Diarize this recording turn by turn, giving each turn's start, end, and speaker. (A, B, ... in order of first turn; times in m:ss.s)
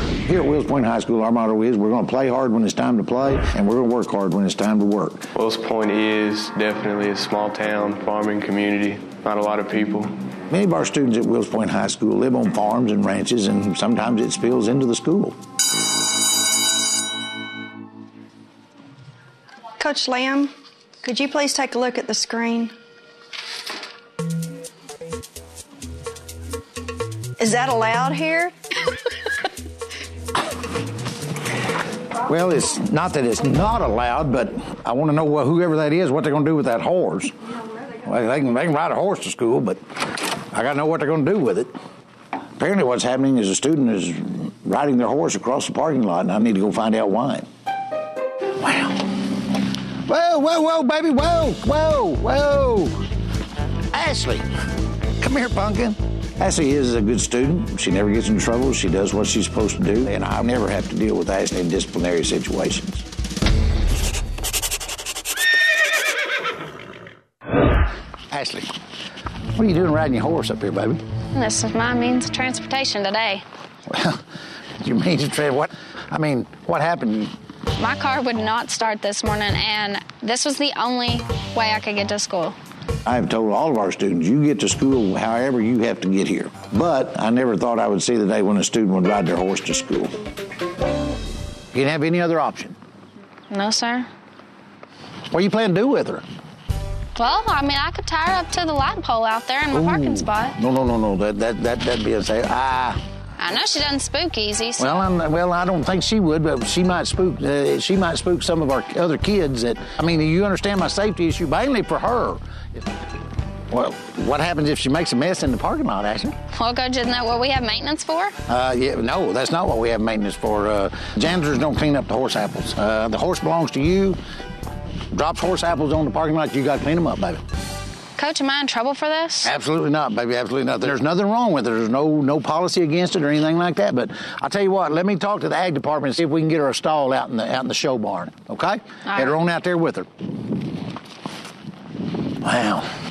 0:00.2-0:05.3 A
0:05.4-0:10.1 B
0:10.5-0:15.4 A
0:19.8-0:20.5 C
0:21.0-0:22.7 C
0:27.4-0:28.5 C
0:32.2-0:37.3 A
0:38.0-0:41.7 A
0:42.6-0:47.5 A
0:48.6-0:49.2 A
0:50.0-0:53.0 A
0:53.9-0:54.4 A
0:55.2-1:03.0 A
1:08.3-1:08.7 A
1:09.5-1:11.0 A
1:11.3-1:13.4 D
1:13.9-1:14.2 A
1:14.8-1:17.3 A
1:17.8-1:22.6 D
1:23.0-1:30.2 A
1:31.7-1:32.8 A
1:33.5-1:34.1 D
1:35.3-1:36.2 A
1:37.2-1:40.6 D
1:39.7-1:43.0 A
1:43.4-1:45.0 D
1:44.8-1:52.8 A
1:53.7-1:56.4 A
1:56.5-1:58.3 D
1:58.5-2:04.2 A
2:05.1-2:07.4 A
2:08.2-2:09.5 D
2:09.4-2:20.1 A
2:22.4-2:22.9 A